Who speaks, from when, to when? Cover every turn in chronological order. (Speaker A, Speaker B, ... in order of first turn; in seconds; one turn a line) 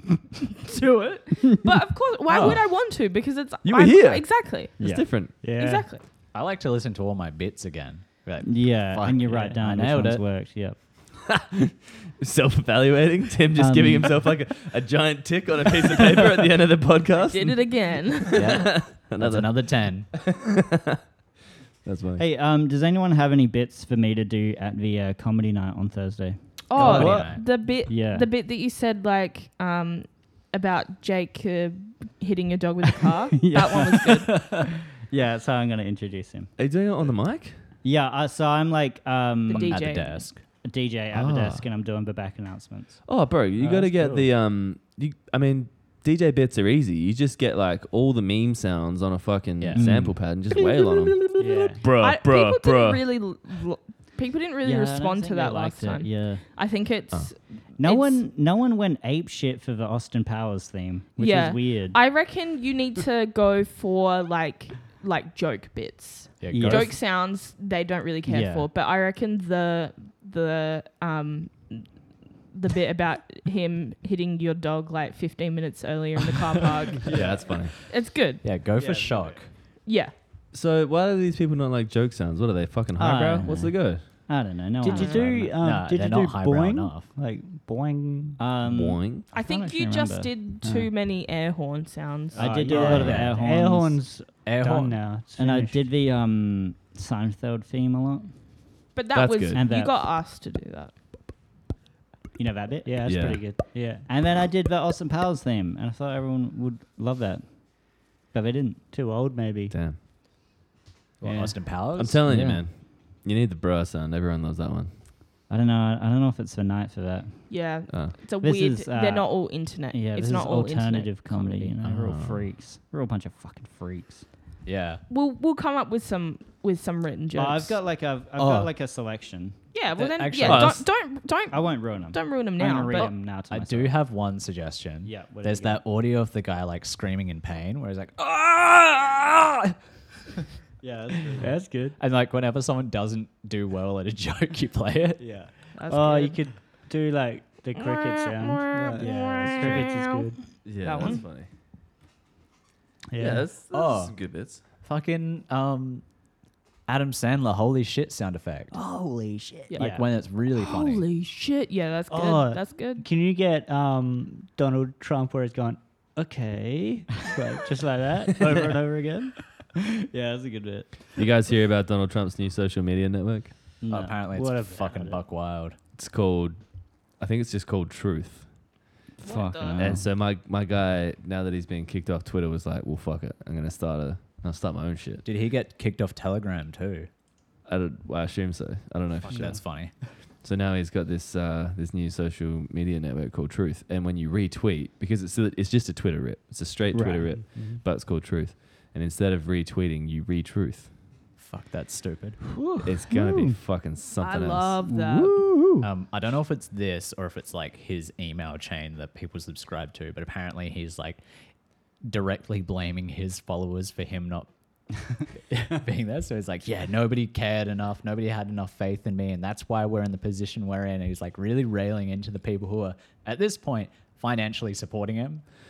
Speaker A: 0.7-4.8
Speaker B: 2.3-2.6
Speaker C: 3.6-5.4
Speaker D: 4.8-5.1
Speaker E: 5.4-5.9
Speaker A: 5.4-6.0
Speaker B: 6.3-10.2
Speaker D: 8.4-10.8
Speaker E: 9.3-9.6
Speaker C: 11.3-17.8
Speaker D: 13.5-14.2
Speaker A: 17.2-18.4
Speaker B: 18.3-20.1
Speaker C: 18.4-20.9
Speaker C: 21.8-22.2
Speaker D: 22.2-26.4
Speaker A: 26.7-34.5
Speaker B: 26.7-27.4
Speaker C: 26.8-27.4
Speaker D: 27.6-28.3
Speaker D: 33.4-36.5
Speaker C: 36.6-37.6
Speaker D: 37.8-40.1
Speaker A: 39.5-40.2
Speaker B: 39.5-40.4
Speaker D: 40.6-43.0
Speaker C: 41.1-41.6
Speaker C: 43.0-53.0
Speaker E: 43.6-44.3
Speaker B: 49.6-50.1
Speaker D: 49.7-50.2
Speaker E: 51.4-51.9
Speaker A: 52.0-58.2
Speaker D: 54.6-56.4
Speaker D: 57.8-62.0
Speaker A: 61.2-77.1
Speaker B: 66.4-67.0
Speaker D: 66.5-66.9
Speaker D: 68.2-68.7
Speaker B: 77.1-79.5
Speaker C: 77.1-77.8
Speaker A: 77.8-78.4
Speaker E: 78.8-79.3
Speaker A: 79.8-80.1
Speaker C: 80.5-84.5
Speaker D: 83.0-85.5
Speaker E: 84.8-88.4
Speaker A: 84.8-85.2
Speaker B: 85.6-87.1
Speaker D: 88.4-90.3
Speaker C: 88.6-89.3
Speaker A: 89.3-93.0
Speaker E: 90.6-90.9
Speaker D: 92.3-94.1
Speaker E: 92.3-95.8
Speaker C: 92.9-93.3
Speaker B: 93.0-93.3
Speaker B: 94.4-95.0
Speaker D: 95.4-98.4
Speaker A: 98.9-100.9
Speaker C: 99.1-99.6
Speaker D: 99.5-100.0
Speaker D: 102.4-108.8
Speaker E: 102.8-104.1
Speaker C: 103.0-103.5
Speaker E: 108.9-109.7
Speaker C: 109.7-110.0
Speaker B: 111.2-112.2
Speaker E: 111.2-111.6
Speaker C: 111.9-114.9
Speaker D: 112.2-112.7
Speaker D: 115.5-124.3
Speaker A: 117.5-121.5
Speaker C: 117.9-118.2
Speaker C: 121.8-122.5
Speaker B: 124.6-125.0
Speaker A: 125.1-127.8
Speaker D: 127.3-129.6
Speaker B: 128.4-128.7
Speaker A: 129.7-133.1
Speaker B: 129.9-130.8
Speaker C: 130.4-130.8
Speaker D: 131.5-134.0
Speaker B: 133.5-138.4
Speaker D: 135.0-135.8
Speaker E: 138.6-139.0
Speaker E: 141.3-142.0
Speaker B: 141.9-145.3
Speaker E: 145.2-151.2
Speaker A: 145.7-146.6
Speaker A: 147.8-150.1
Speaker C: 150.6-151.5
Speaker A: 150.8-151.2
Speaker E: 153.1-153.5
Speaker C: 153.2-154.6
Speaker B: 153.7-156.0
Speaker B: 156.9-158.7
Speaker E: 158.7-160.0
Speaker B: 159.8-161.0
Speaker A: 160.5-163.0
Speaker E: 162.1-169.4
Speaker D: 170.1-170.9
Speaker C: 171.1-173.7
Speaker D: 173.8-174.2
Speaker B: 173.9-175.8
Speaker E: 174.3-175.2
Speaker C: 175.9-178.6
Speaker D: 179.2-180.1
Speaker A: 179.2-180.0
Speaker C: 179.7-185.2
Speaker B: 185.2-187.1
Speaker C: 187.7-189.7
Speaker B: 189.2-190.0
Speaker C: 190.3-200.9
Speaker D: 196.9-197.2
Speaker E: 197.2-197.8
Speaker B: 201.4-202.5
Speaker E: 202.8-203.6
Speaker C: 202.8-204.8
Speaker A: 204.2-205.4
Speaker E: 204.9-205.8
Speaker B: 205.8-211.2
Speaker B: 212.0-214.5
Speaker B: 215.0-225.4